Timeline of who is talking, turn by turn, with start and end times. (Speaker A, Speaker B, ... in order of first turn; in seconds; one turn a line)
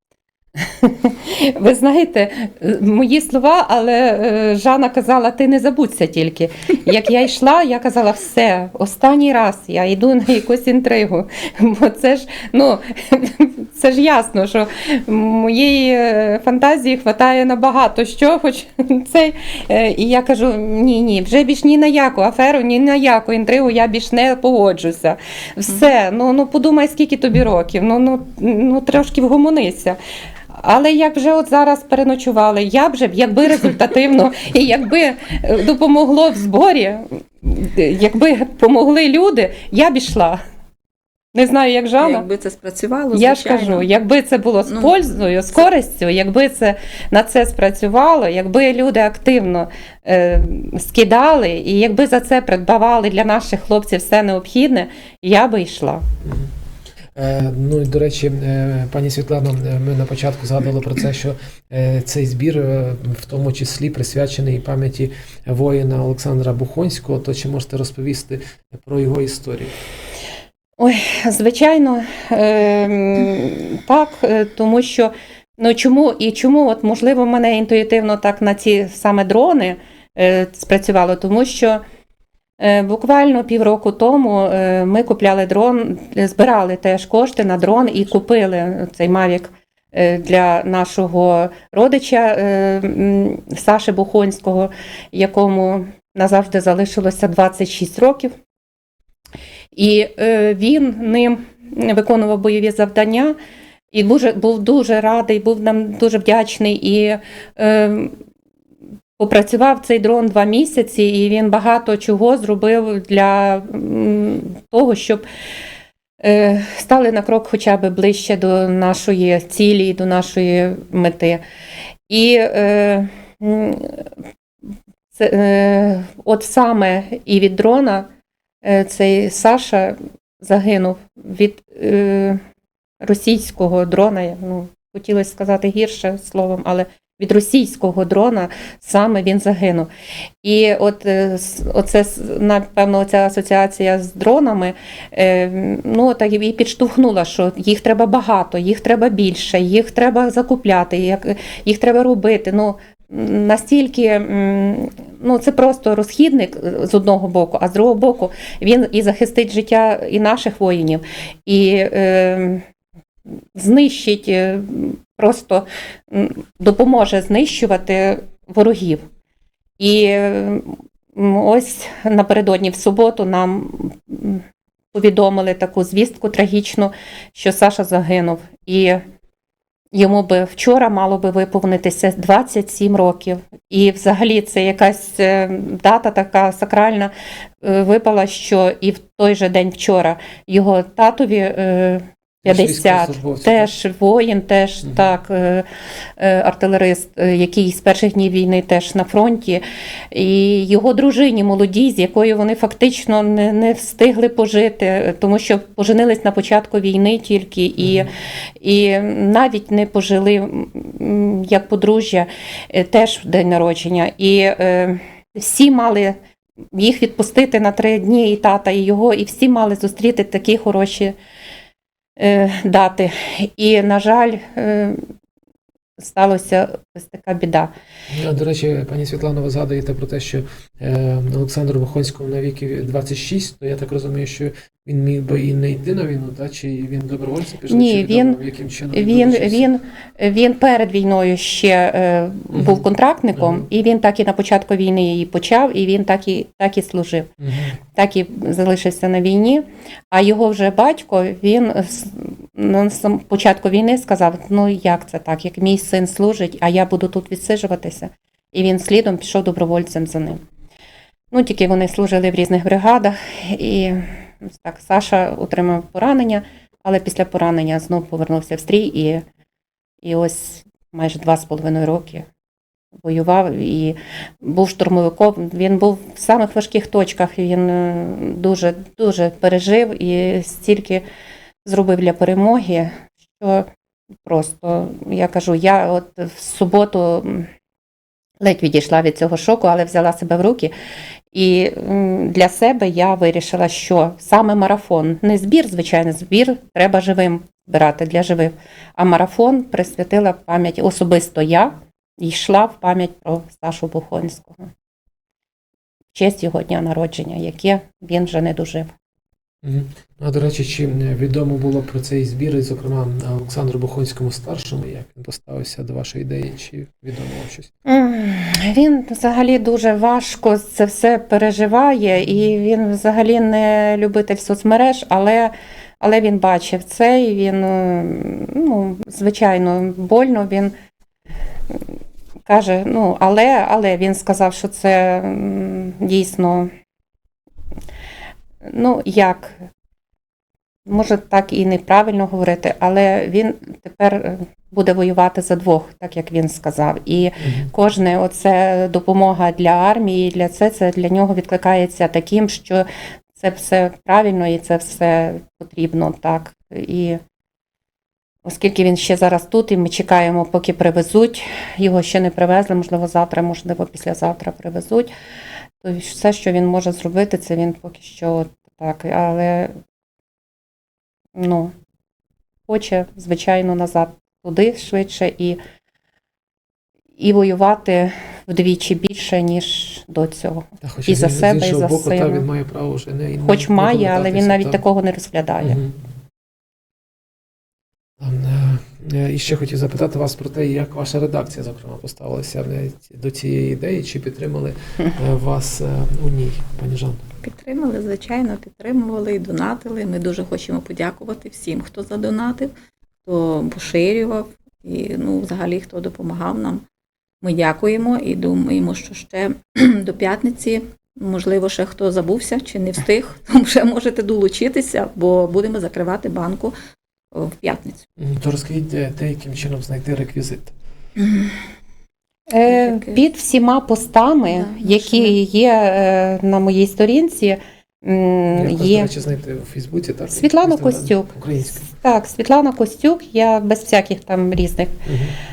Speaker A: 0.6-30.0
Speaker A: 30.5-40.4
Speaker A: 41.3-42.2
Speaker B: 42.0-43.9
Speaker A: 43.1-56.0
Speaker B: 44.7-45.0
Speaker C: 56.2-56.5
Speaker C: 57.1-69.7
Speaker A: 70.8-81.8
Speaker A: 82.6-98.3
Speaker A: 99.7-103.3
Speaker A: 103.9-108.2
Speaker A: 109.2-115.2
Speaker A: 116.2-121.4
Speaker A: 122.1-124.1
Speaker A: 125.1-128.1
Speaker A: 128.6-132.4
Speaker A: 133.0-139.9
Speaker A: 140.4-162.6
Speaker A: 163.6-169.1
Speaker A: 169.8-179.0
Speaker A: 179.9-195.7
Speaker C: 192.4-193.7
Speaker A: 196.2-216.2
Speaker C: 207.8-208.1
Speaker A: 216.7-221.2
Speaker A: 222.2-225.0
Speaker A: 226.0-227.7
Speaker C: 228.1-239.7
Speaker A: 237.7-238.4
Speaker A: 238.9-247.3
Speaker C: 242.5-242.8
Speaker C: 243.4-243.6
Speaker C: 247.4-247.8
Speaker A: 247.9-260.4
Speaker A: 261.3-269.2
Speaker A: 270.0-272.3
Speaker A: 273.0-281.0
Speaker A: 281.6-283.7
Speaker A: 284.2-287.5
Speaker A: 288.4-290.7
Speaker A: 291.3-304.7
Speaker A: 306.1-308.9
Speaker C: 309.6-317.7
Speaker A: 317.9-330.7
Speaker A: 332.4-336.7
Speaker A: 338.6-339.7
Speaker A: 340.9-357.2
Speaker C: 347.4-347.7
Speaker A: 358.4-365.1
Speaker A: 365.8-369.8
Speaker A: 371.3-371.7
Speaker A: 372.7-375.6
Speaker A: 377.2-382.4
Speaker C: 380.8-384.8
Speaker A: 383.4-385.8
Speaker C: 385.6-385.9
Speaker C: 388.2-397.2
Speaker B: 397.4-402.7
Speaker B: 403.2-406.8
Speaker B: 407.4-416.8
Speaker B: 417.3-418.1
Speaker C: 418.2-420.7
Speaker B: 421.2-421.6
Speaker A: 422.5-429.1
Speaker B: 422.6-423.2
Speaker B: 424.4-425.4
Speaker C: 428.5-431.9
Speaker A: 430.3-435.1
Speaker C: 435.1-435.3